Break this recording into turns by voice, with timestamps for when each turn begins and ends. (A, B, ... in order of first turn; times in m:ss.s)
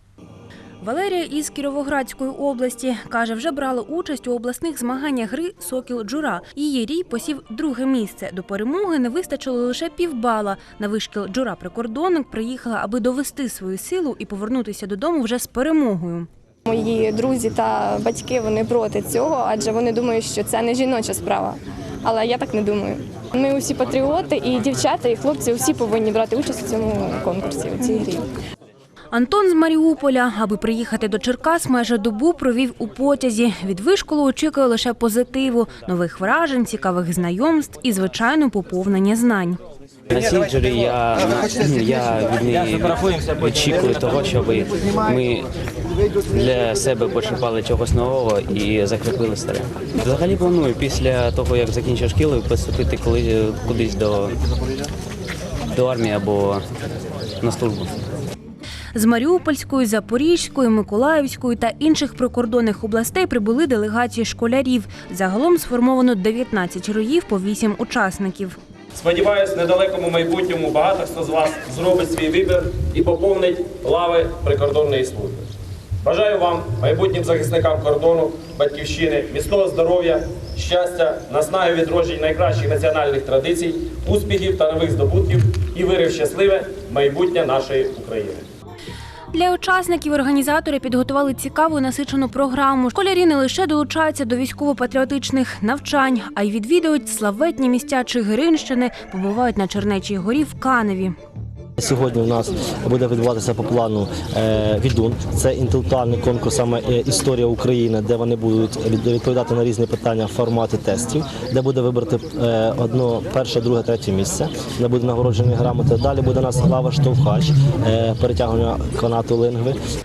0:00.8-0:16.3 A
0:16.6-0:28.3 B
0:29.1-0:39.6 A
0:40.1-0:45.5 C
0:46.3-0:54.3 C
0:55.7-0:56.6 C
0:57.4-0:58.0 C
0:58.9-1:08.6 A
1:08.9-1:15.5 D
1:16.0-1:28.4 D
1:29.3-1:41.1 A
1:41.8-1:59.8 E